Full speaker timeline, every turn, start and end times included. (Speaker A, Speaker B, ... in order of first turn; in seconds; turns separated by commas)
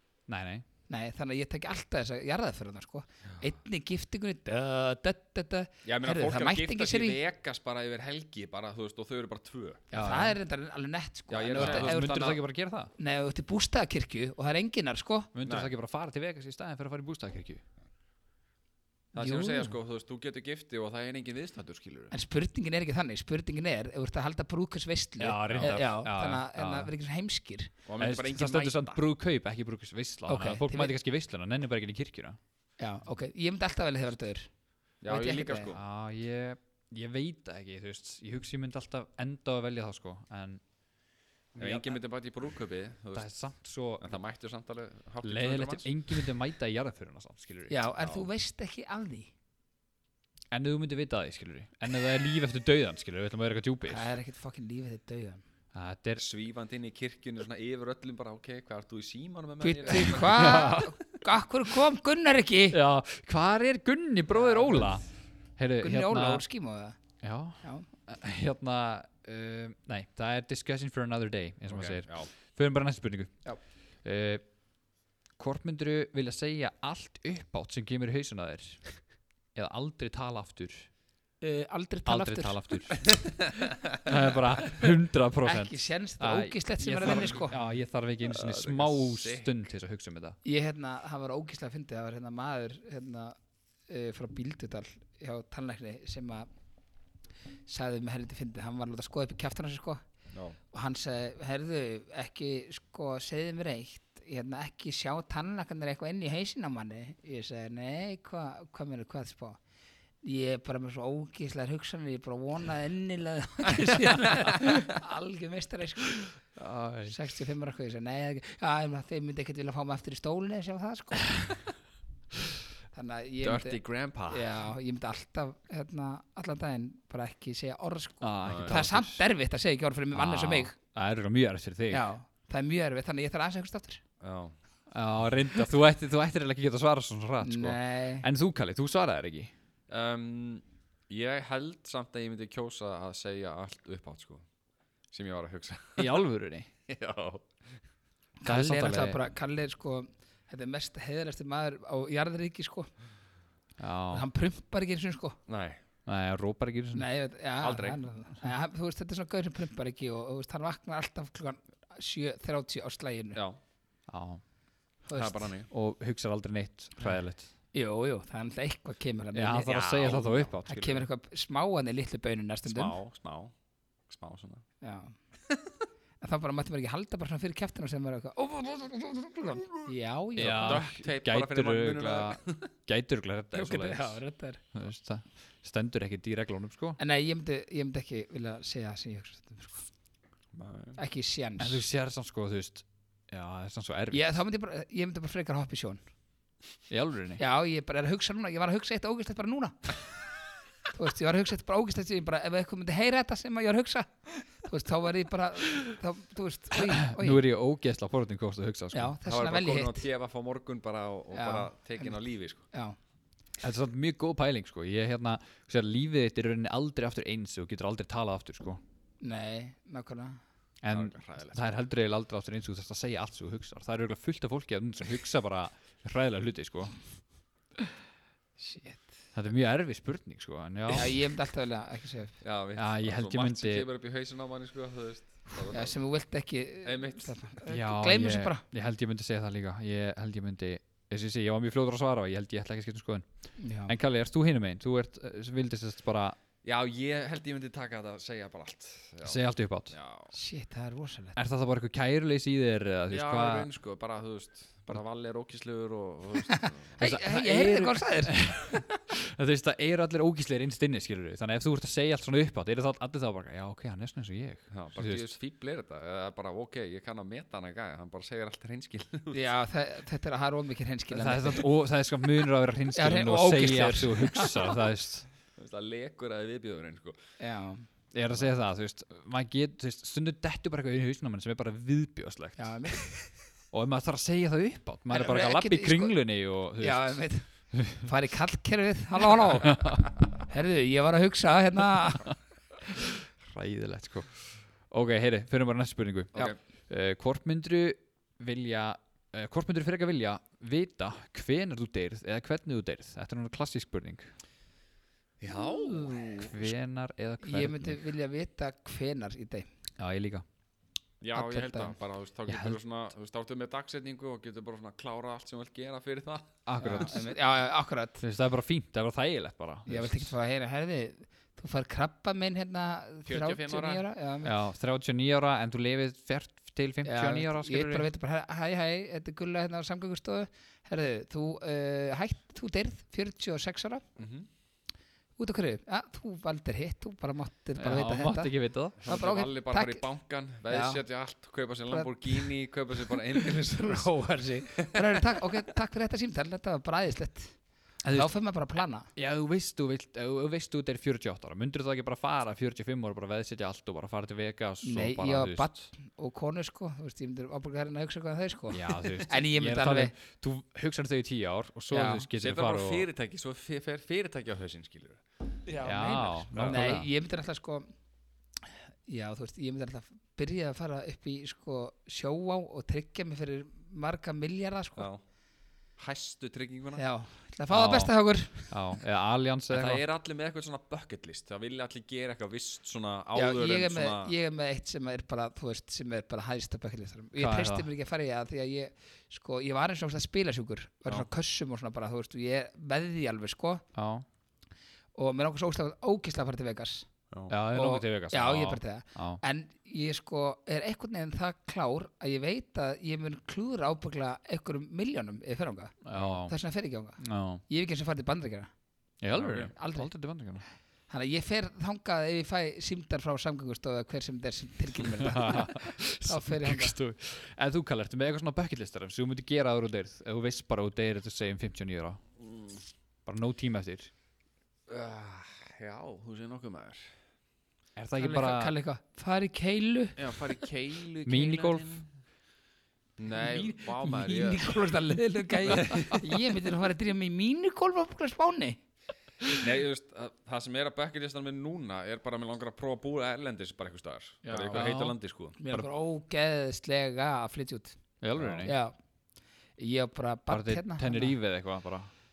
Speaker A: 0.3-0.7, Speaker B: 0.9-7.2, Speaker C: 5.8-9.8, Speaker B: 9.9-12.4, Speaker A: 9.9-10.4, Speaker C: 11.3-12.4, Speaker A: 11.6-12.9, Speaker B: 13.0-15.3, Speaker A: 15.3-17.6, Speaker C: 15.4-15.7, Speaker C: 19.1-22.1, Speaker B: 19.2-19.7, Speaker B: 22.1-27.7, Speaker A: 25.2-26.9, Speaker C: 25.5-25.8, Speaker C: 27.9-29.0, Speaker A: 28.0-32.4, Speaker B: 30.3-30.9, Speaker B: 32.8-34.5, Speaker C: 35.0-35.8, Speaker B: 35.1-35.7, Speaker A: 35.7-40.6, Speaker A: 41.5-42.0, Speaker C: 41.6-43.3, Speaker A: 43.1-44.1, Speaker C: 44.0-45.9, Speaker A: 45.2-47.8, Speaker B: 47.7-49.3, Speaker C: 48.0-48.3, Speaker A: 50.5-54.1, Speaker B: 53.9-55.4, Speaker A: 55.7-56.2, Speaker C: 56.2-60.5, Speaker A: 59.8-61.0, Speaker B: 59.8-62.8, Speaker A: 62.7-65.0, Speaker B: 64.3-65.0, Speaker A: 65.6-66.4, Speaker B: 65.8-67.0, Speaker A: 67.2-73.4, Speaker B: 67.6-67.9, Speaker C: 71.7-72.3, Speaker A: 74.0-74.4, Speaker A: 75.4-79.0, Speaker A: 79.5-80.9, Speaker B: 81.4-82.9, Speaker A: 82.1-83.3, Speaker C: 83.2-84.0, Speaker A: 84.0-90.4, Speaker B: 85.4-87.5, Speaker C: 88.2-89.5, Speaker B: 90.5-93.4, Speaker B: 93.9-96.5, Speaker B: 97.7-100.0, Speaker C: 100.3-100.6, Speaker B: 100.7-109.6, Speaker B: 110.2-116.3, Speaker C: 114.2-114.8, Speaker A: 116.6-117.2, Speaker B: 117.1-121.5, Speaker B: 122.9-130.8, Speaker C: 123.4-124.5, Speaker A: 128.2-129.2, Speaker C: 128.4-128.8, Speaker A: 130.1-132.1, Speaker B: 131.9-134.0, Speaker C: 134.2-134.6, Speaker A: 134.9-139.5, Speaker B: 137.4-138.3, Speaker C: 139.9-144.5, Speaker C: 145.1-146.2, Speaker A: 146.0-146.7, Speaker C: 146.9-147.6, Speaker B: 148.4-152.9, Speaker A: 148.5-149.2, Speaker A: 153.8-154.3, Speaker B: 154.1-155.4, Speaker C: 155.5-155.8, Speaker A: 156.1-157.1, Speaker B: 156.9-163.4, Speaker C: 157.6-158.0, Speaker C: 163.3-163.6, Speaker A: 164.1-164.4, Speaker B: 165.1-165.5, Speaker C: 165.1-165.7, Speaker A: 165.7-167.5, Speaker B: 167.7-172.9, Speaker A: 169.3-171.0, Speaker C: 169.7-170.9, Speaker C: 172.7-173.5, Speaker C: 174.1-174.6, Speaker B: 174.8-175.2, Speaker B: 176.2-180.9, Speaker A: 180.4-184.2, Speaker C: 180.4-182.7, Speaker B: 183.5-184.6, Speaker A: 184.7-187.0, Speaker B: 187.0-189.9, Speaker C: 190.5-191.0, Speaker B: 191.0-191.8, Speaker A: 191.6-194.4, Speaker B: 194.1-196.0, Speaker A: 196.9-197.4, Speaker B: 197.4-200.0, Speaker B: 200.9-207.4, Speaker A: 206.8-209.2, Speaker B: 208.9-210.1, Speaker C: 209.2-212.6, Speaker B: 211.3-212.2, Speaker A: 213.6-218.8, Speaker B: 219.2-220.4, Speaker A: 220.8-227.0, Speaker C: 220.9-221.6, Speaker B: 228.6-229.0, Speaker A: 229.3-231.2, Speaker B: 230.9-232.4, Speaker C: 232.4-236.0, Speaker A: 232.8-233.9, Speaker B: 235.7-238.6, Speaker C: 236.8-237.4, Speaker A: 237.7-243.3, Speaker B: 243.6-243.9, Speaker A: 243.9-246.4, Speaker C: 246.6-250.3, Speaker A: 249.2-249.9, Speaker B: 250.3-251.4, Speaker A: 251.4-253.7, Speaker C: 253.1-256.9, Speaker B: 257.0-258.8, Speaker A: 257.0-265.3, Speaker C: 264.7-269.4, Speaker B: 269.3-271.7, Speaker A: 271.1-275.3, Speaker B: 272.9-274.8, Speaker C: 275.6-277.2, Speaker B: 277.4-277.9, Speaker A: 278.1-283.0, Speaker B: 282.6-283.4, Speaker A: 283.7-288.0, Speaker B: 285.1-286.2, Speaker B: 286.8-292.4, Speaker A: 289.6-290.0, Speaker A: 292.9-304.3, Speaker C: 305.4-306.7, Speaker A: 306.4-308.0, Speaker B: 307.4-309.7, Speaker A: 310.0-310.4, Speaker C: 311.2-317.1, Speaker B: 311.3-312.0, Speaker A: 312.5-312.8, Speaker A: 316.7-317.3, Speaker B: 316.8-318.2, Speaker A: 318.2-320.4, Speaker B: 319.9-324.6, Speaker C: 323.3-324.0, Speaker A: 324.4-328.1, Speaker B: 327.1-334.0, Speaker C: 334.2-334.5, Speaker B: 335.4-340.0, Speaker A: 337.8-339.0, Speaker C: 339.0-344.1, Speaker B: 340.7-341.0, Speaker B: 341.9-342.5, Speaker B: 343.4-349.1, Speaker C: 344.7-345.2, Speaker A: 348.0-348.3, Speaker A: 349.1-355.7, Speaker B: 354.8-360.1, Speaker A: 358.7-363.1, Speaker B: 361.9-362.3, Speaker C: 362.4-365.2, Speaker B: 365.7-367.9, Speaker A: 365.8-367.1, Speaker C: 366.2-367.0, Speaker B: 368.7-375.1, Speaker C: 375.0-375.2, Speaker C: 376.0-377.0, Speaker B: 377.0-379.0, Speaker A: 377.7-378.1, Speaker A: 378.7-380.0, Speaker C: 379.7-384.3, Speaker B: 383.4-393.8, Speaker A: 387.4-387.9, Speaker A: 393.9-394.3, Speaker B: 395.1-397.1, Speaker A: 397.5-399.4, Speaker B: 397.7-408.7, Speaker A: 406.1-406.6, Speaker A: 407.2-407.6, Speaker A: 409.2-410.6, Speaker C: 409.3-409.7, Speaker B: 409.7-410.1, Speaker B: 411.1-417.0, Speaker A: 415.2-422.2, Speaker C: 422.4-422.9, Speaker A: 423.3-424.1, Speaker C: 424.9-427.1, Speaker A: 428.0-428.7, Speaker B: 428.2-430.2, Speaker C: 430.2-432.1, Speaker A: 431.3-432.0, Speaker C: 433.2-434.7, Speaker B: 433.3-438.8, Speaker C: 435.7-436.2, Speaker C: 439.5-445.6, Speaker B: 444.4-444.9, Speaker A: 444.7-445.2, Speaker B: 445.6-448.0, Speaker A: 448.2-448.8, Speaker C: 448.4-448.7, Speaker B: 448.6-448.9, Speaker B: 449.8-451.4, Speaker A: 450.5-452.1